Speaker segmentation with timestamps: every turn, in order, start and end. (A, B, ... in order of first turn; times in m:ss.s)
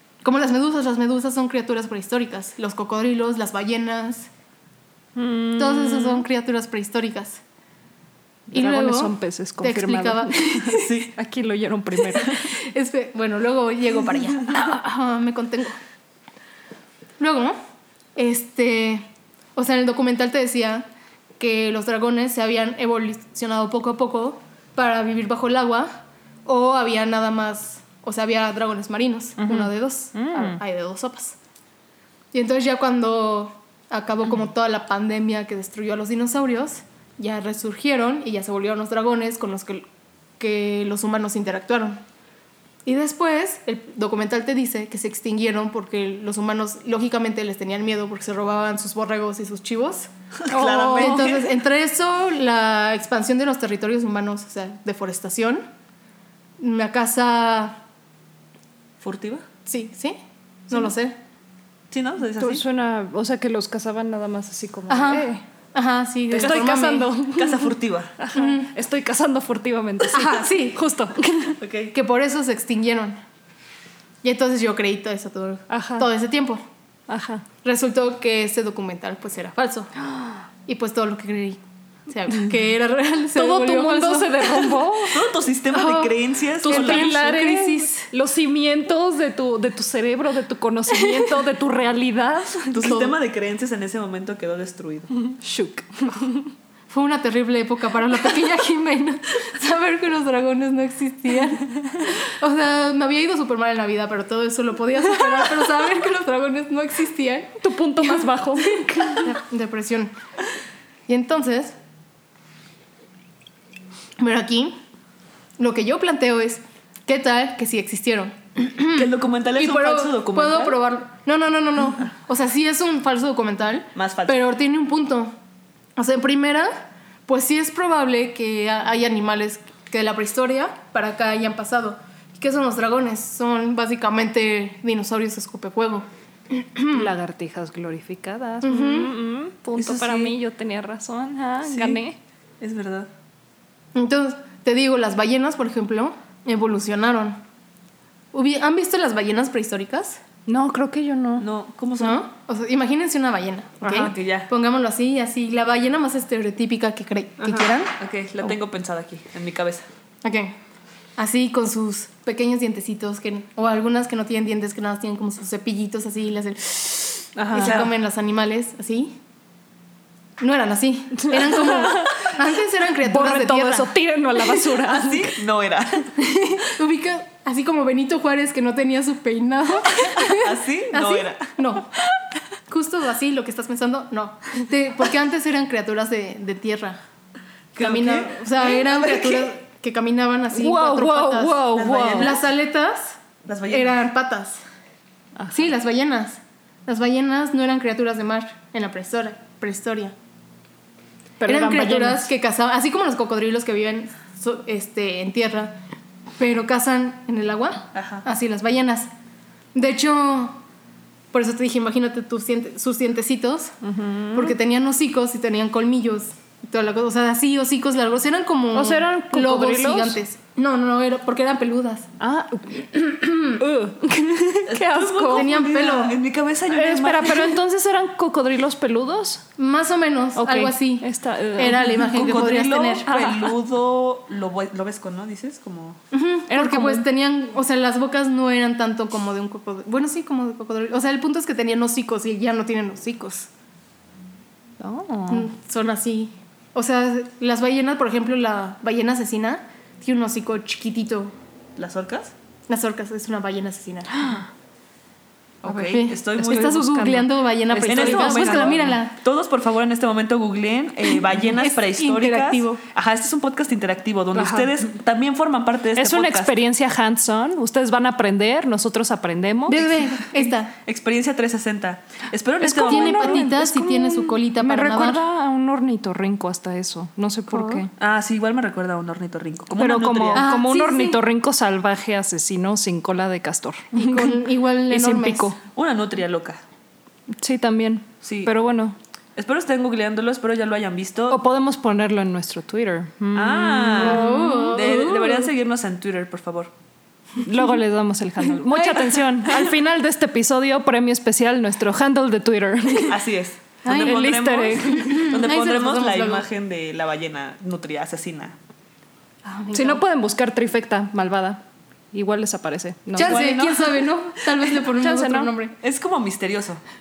0:00.2-0:04.3 A
0:05.2-0:06.2 B
0:05.6-0:07.4 A
0:08.5-0:12.4 B
0:08.5-0:10.9 A
0:10.6-0:11.1 C
0:12.1-0:15.8 A
0:17.2-0:17.6 A
0:18.2-0:19.0 A
0:19.6-0:20.8 A
0:21.4-0:25.9 A
0:26.4-0:31.4 A
0:29.4-0:30.6 B
0:32.3-0:39.8 A
0:40.4-0:42.0 A
0:42.8-0:55.6 A
0:50.4-0:51.5 C
0:50.5-0:51.3 B
0:56.6-0:57.8 A
0:59.0-0:59.4 C
0:59.6-1:00.2 A
1:00.7-1:01.2 A
1:01.9-1:02.6 C
1:02.4-1:05.4 B
1:04.9-1:07.1 A
1:06.3-1:11.6 B
1:06.4-1:08.1 C
1:08.3-1:08.7 A
1:10.1-1:10.8 A
1:11.6-1:11.9 C
1:11.9-1:13.2 A
1:14.2-1:16.6 A
1:15.7-1:16.1 B
1:17.1-1:17.4 B
1:17.6-1:19.9 A
1:20.6-1:24.7 A
1:23.4-1:25.2 B
1:25.1-1:27.2 C
1:25.7-1:28.1 A
1:26.6-1:32.9 B
1:32.7-1:35.1 C
1:35.2-1:36.5 B
1:36.9-1:50.1 A
1:47.6-1:49.4 B
1:51.1-1:51.7 A
1:54.2-1:54.7 A
1:55.6-2:05.3 A
1:59.0-2:00.8 C
2:03.9-2:04.5 C
2:06.0-2:06.7 A
2:07.3-2:17.1 A
2:16.9-2:22.2 B
2:18.6-2:19.1 A
2:19.8-2:20.3 C
2:21.6-2:22.0 C
2:22.6-2:23.1 C
2:23.9-2:27.4 A
2:28.3-2:30.2 A
2:30.5-2:31.4 B
2:31.4-2:32.2 C
2:32.0-2:37.9 A
2:33.8-2:34.5 C
2:37.4-2:39.9 C
2:40.2-2:40.6 A
2:41.2-2:49.1 A
2:47.4-2:47.8 B
2:47.5-2:47.9 C
2:50.4-2:53.9 A
2:51.2-2:52.3 B
2:53.0-2:55.4 B
2:54.8-2:56.1 C
2:56.2-3:01.9 A
3:00.2-3:01.5 C
3:02.7-3:07.0 A
3:07.7-3:09.5 C
3:07.7-3:14.6 A
3:10.5-3:12.4 B
3:11.7-3:12.4 C
3:13.4-3:14.0 C
3:15.5-3:20.1 A
3:21.4-3:22.3 B
3:21.4-3:25.8 A
3:26.4-3:29.1 A
3:27.9-3:28.2 C
3:29.7-3:30.6 A
3:31.3-3:33.7 A
3:33.8-3:34.6 B
3:34.3-3:42.1 A
3:38.7-3:40.2 B
3:42.2-3:45.5 B
3:43.0-3:43.6 A
3:44.7-3:47.6 C
3:45.3-3:46.2 A
3:46.7-3:49.4 B
3:49.6-3:53.1 A
3:50.4-3:52.4 B
3:51.9-3:56.0 C
3:53.0-3:53.5 B
3:56.1-4:03.5 A
3:56.5-3:57.0 B
4:04.8-4:05.5 B
4:05.3-4:11.3 A
4:11.8-4:12.3 C
4:12.7-4:14.4 A
4:14.2-4:14.4 B
4:15.6-4:16.8 C
4:15.6-4:19.2 A
4:16.4-4:18.9 B
4:17.8-4:26.6 C
4:21.4-4:22.8 A
4:24.3-4:24.7 B
4:26.0-4:29.8 B
4:29.7-4:30.7 A
4:29.7-4:33.4 C
4:32.6-4:37.9 B
4:32.6-4:35.2 A
4:37.5-4:37.8 A
4:38.0-4:40.5 C
4:39.8-4:45.6 B
4:40.3-4:41.2 A
4:43.9-4:45.5 A
4:45.7-4:46.6 C
4:47.4-4:49.0 B
4:48.2-4:48.5 C
4:49.4-4:51.4 C
4:51.3-4:54.8 B
4:53.3-4:56.7 C
4:54.0-4:55.5 A
4:57.4-5:03.2 B
4:58.6-4:59.3 A
5:03.0-5:08.6 C
5:03.8-5:04.2 A
5:03.9-5:05.3 B
5:04.9-5:06.4 A
5:09.4-5:10.0 A
5:09.7-5:11.6 B
5:12.1-5:13.6 B
5:13.2-5:15.7 A
5:13.2-5:14.0 C
5:14.8-5:15.5 B
5:15.8-5:16.8 C